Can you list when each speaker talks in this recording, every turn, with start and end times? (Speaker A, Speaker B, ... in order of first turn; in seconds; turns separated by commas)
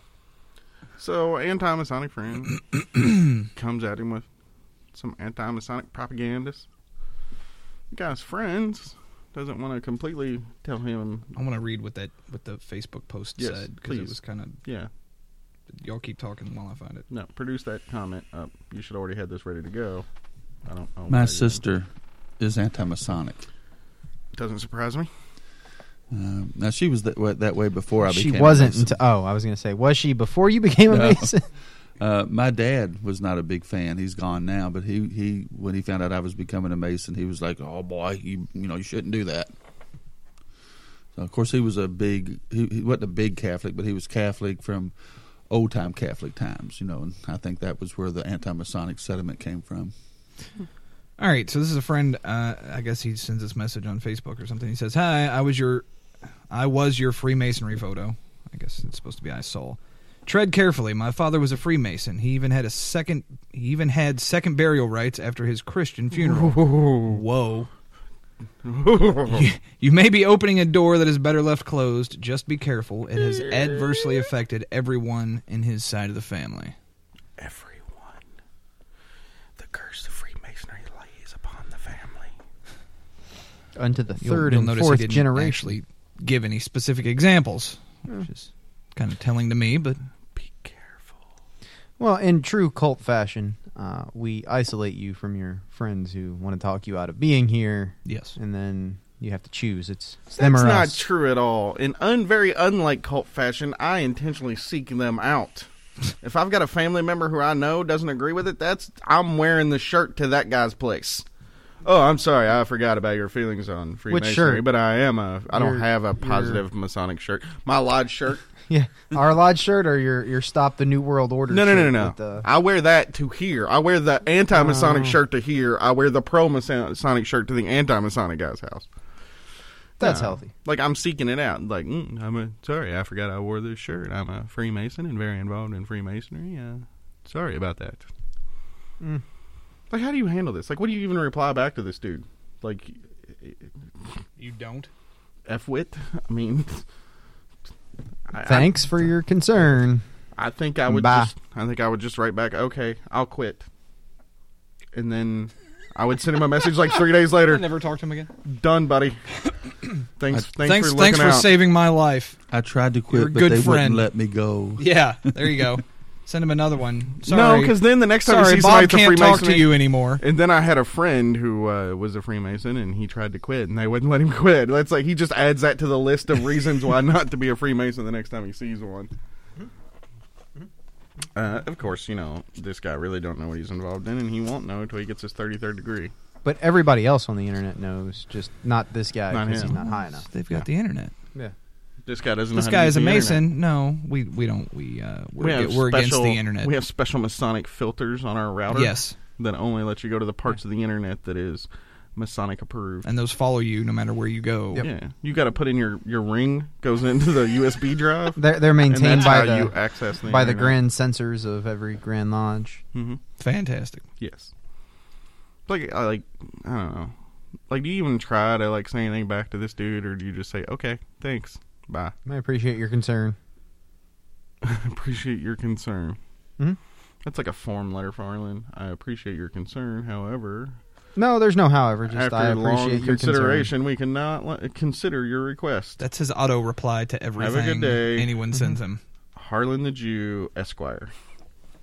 Speaker A: 1.0-2.6, Speaker A: 3.5-4.2, Speaker A: 4.9-6.6, Speaker A: 7.9-11.3, Speaker B: 11.3-14.6, Speaker A: 13.4-14.9, Speaker B: 15.7-17.0, Speaker A: 17.1-20.1, Speaker A: 20.6-21.6, Speaker C: 21.1-23.4, Speaker A: 24.3-25.1, Speaker C: 26.1-28.9, Speaker D: 28.0-31.4, Speaker C: 30.9-31.3, Speaker C: 32.0-39.5, Speaker C: 41.1-44.9, Speaker C: 45.5-49.9, Speaker B: 51.2-55.9, Speaker B: 56.5-67.7, Speaker A: 66.1-67.2, Speaker A: 68.6-69.5, Speaker B: 69.3-76.7, Speaker A: 73.5-73.7, Speaker A: 77.4-78.2, Speaker A: 79.6-82.3, Speaker D: 83.7-85.8, Speaker B: 84.2-90.0, Speaker A: 90.3-91.2, Speaker D: 92.0-101.0, Speaker B: 98.0-98.3, Speaker A: 100.3-105.7, Speaker A: 106.2-111.2, Speaker A: 111.8-118.4, Speaker D: 114.1-114.7, Speaker D: 115.5-116.6, Speaker D: 118.7-122.5, Speaker A: 121.5-128.9, Speaker D: 124.5-125.2, Speaker D: 130.0-130.5, Speaker A: 130.0-138.1, Speaker A: 139.9-143.7, Speaker B: 144.4-144.9, Speaker A: 145.5-146.8, Speaker A: 148.3-148.7, Speaker D: 148.4-150.0, Speaker A: 150.4-153.7, Speaker D: 150.8-151.3, Speaker A: 154.9-157.7, Speaker B: 157.5-158.3, Speaker A: 158.4-159.2, Speaker A: 160.2-161.5, Speaker B: 160.6-162.4, Speaker C: 162.5-165.8, Speaker B: 163.1-164.1, Speaker B: 164.8-170.2, Speaker A: 167.2-179.1, Speaker A: 181.3-186.1, Speaker D: 186.4-190.2, Speaker A: 189.3-189.7, Speaker B: 189.6-191.1, Speaker A: 192.1-193.4, Speaker B: 192.5-196.7, Speaker A: 195.4-203.1, Speaker B: 198.7-199.2, Speaker B: 203.0-204.8, Speaker A: 204.8-210.8, Speaker D: 208.3-212.8, Speaker A: 212.9-213.2, Speaker B: 213.4-214.0, Speaker A: 214.2-214.5, Speaker A: 215.7-217.1, Speaker A: 217.7-222.1, Speaker D: 222.2-223.3, Speaker A: 224.6-226.2, Speaker A: 227.2-230.8, Speaker D: 231.2-233.7, Speaker A: 232.1-236.0, Speaker B: 236.0-239.0, Speaker A: 237.4-238.3, Speaker A: 239.3-241.1